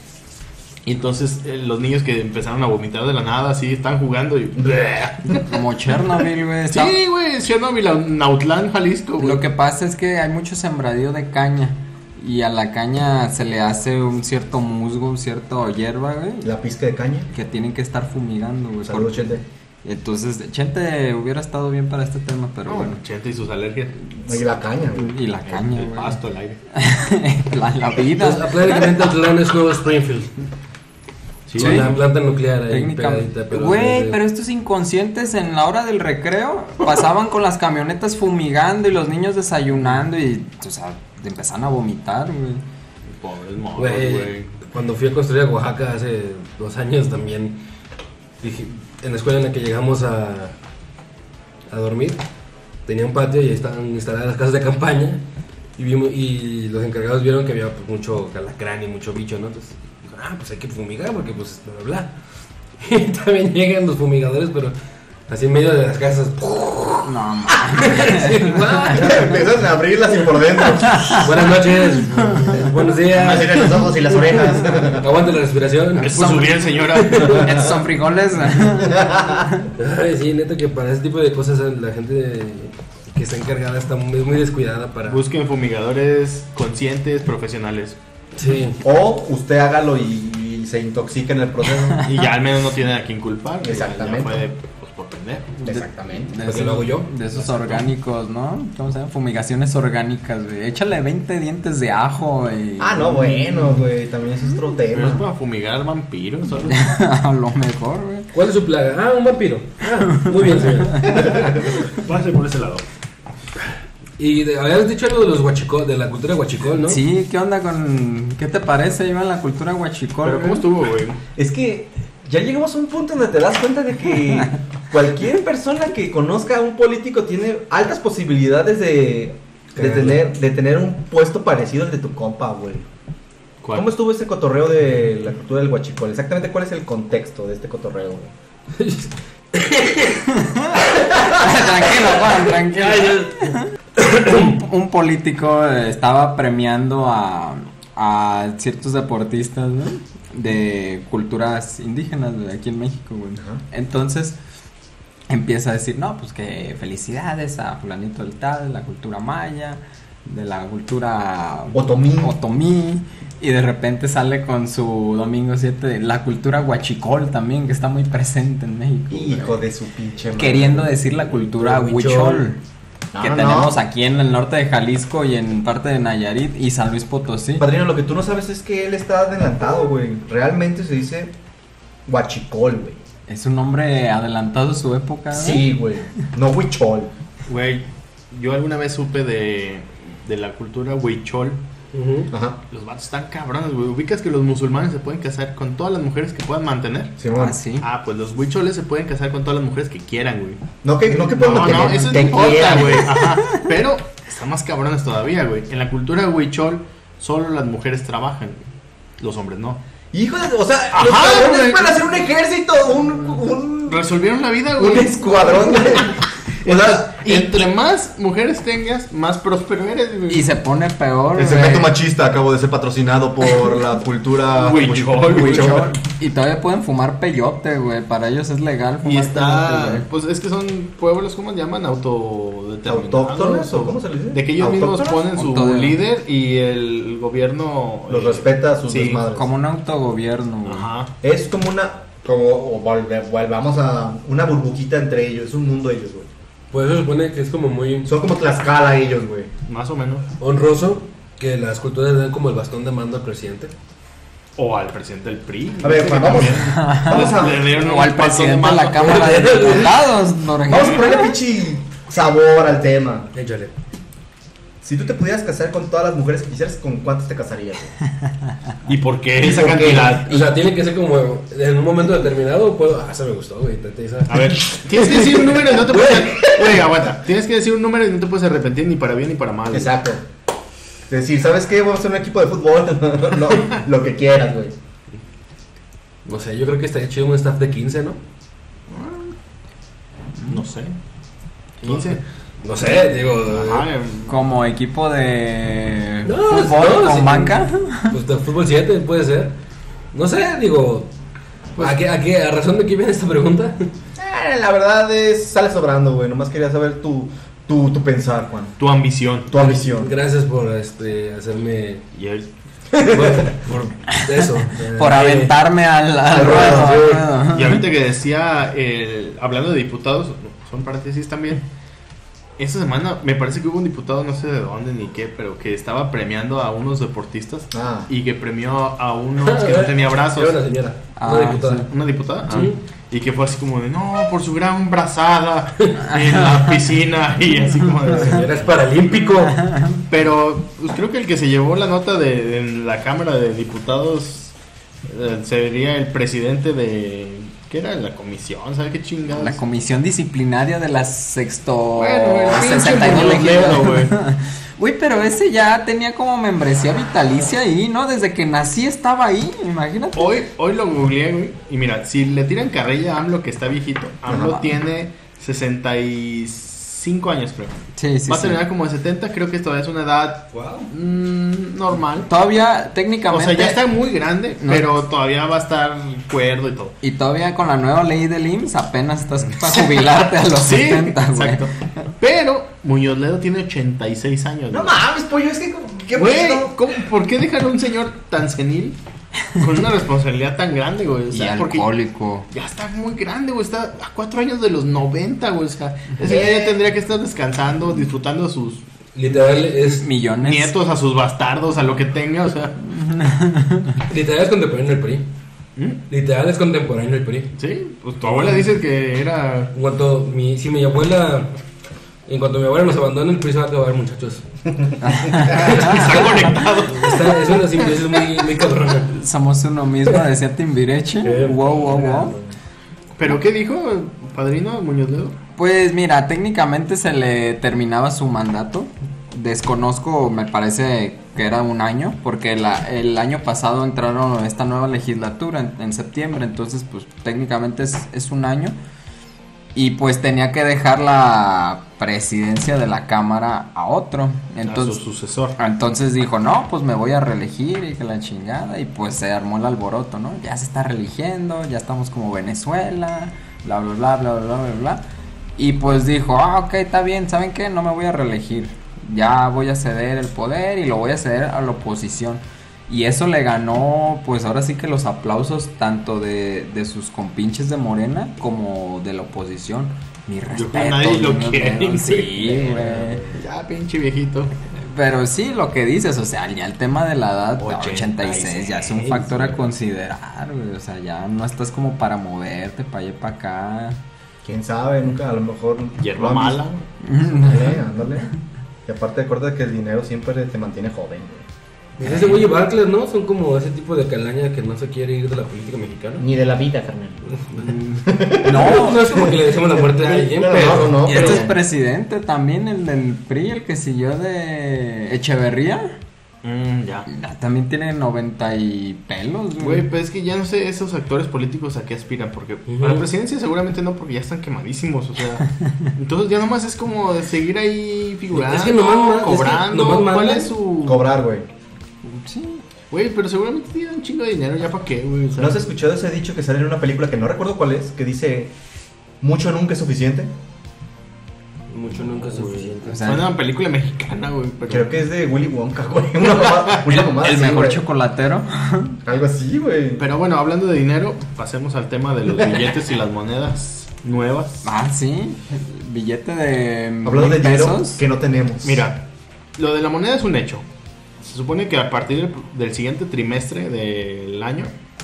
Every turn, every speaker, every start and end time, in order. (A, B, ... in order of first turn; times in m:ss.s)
0:00.8-0:05.6 A
0:05.3-0:06.9 B
0:06.7-0:09.4 A
0:09.2-0:16.5 B
0:16.4-0:17.3 C
0:17.3-0:23.0 B
0:18.8-0:19.4 C
0:22.7-0:23.9 A
0:24.2-0:25.2 C
0:24.9-0:26.2 B
0:25.5-0:26.6 A
0:26.7-0:28.9 B
0:28.2-0:30.3 D
0:31.5-0:32.0 A
0:31.5-0:34.2 D
0:31.6-0:31.9 B
0:32.7-0:42.6 B
0:43.1-0:44.6 A
0:43.8-0:47.6 D
0:48.4-0:50.5 D
0:51.7-0:52.2 D
0:52.8-0:55.2 D
0:55.8-1:02.1 D
1:02.8-1:04.7 D
1:05.3-1:07.1 D
1:07.0-1:09.2 B
1:07.7-1:09.4 D
1:08.9-1:11.4 C
1:10.9-1:11.2 B
1:11.2-1:14.4 D
1:12.1-1:12.5 B
1:13.1-1:15.1 C
1:13.2-1:14.7 E
1:14.9-1:17.6 D
1:16.0-1:17.5 A
1:17.3-1:19.7 B
1:18.8-1:19.4 C
1:19.8-1:25.2 D
1:25.0-1:28.0 A
1:28.4-1:28.8 D
1:28.8-1:32.1 C
1:32.0-1:35.7 A
1:33.6-1:34.4 C
1:35.7-1:36.3 C
1:35.7-1:36.3 E
1:36.1-1:43.1 B
1:36.4-1:37.1 D
1:37.3-1:37.8 A
1:42.8-1:45.2 C
1:43.0-1:43.4 E
1:44.9-1:46.9 A
1:46.6-1:48.3 B
1:48.3-1:51.2 D
1:50.2-1:51.5 B
1:51.1-1:52.8 A
1:54.2-1:57.0 D
1:56.8-2:00.6 B
2:00.2-2:01.2 A
2:01.4-2:12.9 C
2:09.8-2:10.2 D
2:13.6-2:13.9 A
2:13.7-2:18.3 C
2:18.8-2:20.2 D
2:20.3-2:23.7 B
2:21.1-2:24.6 D
2:24.2-2:34.4 B
2:35.3-2:49.6 B
2:41.7-2:42.4 C
2:49.1-2:51.5 C
2:50.4-2:52.6 B
2:51.6-2:52.5 D
2:53.1-2:53.8 C
2:53.2-2:57.6 B
2:57.6-3:01.3 C
3:02.0-3:03.0 C
3:03.3-3:05.7 B
3:05.3-3:07.1 C
3:07.5-3:11.6 A
3:11.9-3:12.3 D
3:12.3-3:12.6 C
3:12.7-3:17.2 A
3:17.2-3:17.6 C
3:17.3-3:17.8 B
3:17.8-3:20.6 A
3:20.8-3:23.1 C
3:21.3-3:28.7 A
3:22.2-3:23.1 E
3:29.2-3:29.8 A
3:30.1-3:34.0 C
3:30.9-3:32.1 A
3:33.9-3:36.1 A
3:34.8-3:37.6 C
3:36.6-3:40.5 A
3:40.3-3:41.9 B
3:41.3-3:45.9 C
3:44.5-3:45.9 A
3:45.3-3:50.0 B
3:49.0-3:59.3 A
3:52.8-3:55.3 C
3:55.4-3:56.0 B
3:58.1-3:59.5 C
3:59.3-4:00.9 B
4:00.6-4:01.1 A
4:01.2-4:06.3 C
4:06.7-4:08.1 D
4:08.0-4:09.5 C
4:09.6-4:10.2 A
4:10.4-4:13.7 D
4:14.6-4:19.6 A
4:15.8-4:17.7 C
4:16.7-4:21.3 B
4:19.0-4:20.0 D
4:20.7-4:23.3 C
4:23.3-4:23.7 D
4:24.8-4:27.9 C
4:28.9-4:30.5 A
4:29.6-4:29.9 E
4:29.7-4:30.0 C
4:30.1-4:36.5 D
4:34.3-4:39.9 A
4:39.7-4:40.2 C
4:41.1-4:44.7 C
4:46.2-4:48.2 D
4:48.9-4:49.3 A
4:50.5-4:51.0 A
4:51.8-4:52.2 A
4:51.8-4:53.9 D
4:52.8-4:54.3 A
4:54.3-4:58.2 B
4:56.2-4:59.5 D
5:00.1-5:01.1 D
5:01.7-5:03.9 D
5:04.2-5:08.8 C
5:08.8-5:09.5 A
5:09.5-5:10.1 C
5:09.8-5:12.0 D
5:12.1-5:12.5 A
5:13.0-5:15.5 D
5:14.9-5:17.8 B
5:16.3-5:17.2 C
5:16.3-5:17.2 D
5:17.4-5:21.6 A
5:22.6-5:30.6 A
5:27.7-5:28.1 C
5:29.4-5:31.9 D
5:31.2-5:31.9 B
5:31.9-5:38.7 A
5:32.5-5:32.8 D
5:36.1-5:36.4 B
5:38.1-5:39.6 D
5:39.4-5:40.0 B
5:40.1-5:44.6 A
5:45.1-5:49.6 A
5:49.3-6:00.4 B
5:52.0-5:54.1 A
6:00.1-6:12.3 A
6:04.3-6:04.5 C
6:08.0-6:08.6 B
6:12.3-6:13.8 B
6:13.3-6:17.0 A
6:14.6-6:15.0 B
6:17.0-6:22.0 B
6:19.4-6:25.0 A
6:24.7-6:26.8 C
6:26.1-6:29.0 A
6:29.6-6:31.9 A
6:31.3-6:32.5 B
6:32.5-6:38.8 A
6:36.2-6:36.6 C
6:39.1-6:40.0 D
6:39.9-6:40.7 B
6:40.4-6:42.8 A
6:42.9-6:44.0 B
6:44.1-6:45.3 D
6:45.8-6:46.0 A
6:46.1-6:47.5 D
6:47.6-6:49.7 A
6:48.2-6:48.6 D
6:49.7-6:51.5 D
6:52.3-6:54.4 D
6:55.0-6:56.1 B
6:55.3-6:59.1 D
6:55.5-6:57.5 A
6:59.1-7:02.4 B
7:01.2-7:02.3 D
7:02.0-7:02.4 C
7:03.2-7:05.4 A
7:05.6-7:18.8 B
7:19.7-7:25.0 B
7:24.6-7:25.6 A
7:25.6-7:35.0 B
7:35.6-7:53.2 B
7:50.5-7:52.6 A
7:52.6-7:53.1 D
7:53.3-7:54.5 A
7:54.8-8:04.0 B
7:57.6-7:59.7 A
8:04.4-8:08.3 C
8:06.0-8:06.8 A
8:07.0-8:07.8 B
8:08.8-8:11.4 C
8:12.0-8:16.2 D
8:12.0-8:12.3 B
8:16.2-8:17.3 E
8:17.3-8:21.4 D
8:18.1-8:21.5 C
8:18.4-8:19.1 B
8:21.0-8:26.0 B
8:21.1-8:21.5 E
8:26.4-8:27.1 A
8:27.1-8:29.9 B
8:29.6-8:41.1 A
8:32.7-8:33.0 D
8:38.3-8:40.5 D
8:40.8-8:41.5 C
8:42.0-8:42.6 B
8:42.9-8:45.6 A
8:45.4-8:48.5 C
8:49.2-8:50.3 C
8:51.7-8:53.1 D
8:52.2-8:55.0 A
8:52.8-8:53.3 B
8:54.6-8:57.8 C
8:56.4-8:56.8 A
8:56.9-8:59.0 B
8:59.0-9:00.1 C
9:00.0-9:04.6 A
9:04.6-9:08.0 B
9:07.0-9:08.9 C
9:08.6-9:09.0 A
9:09.6-9:10.6 A
9:11.2-9:14.7 A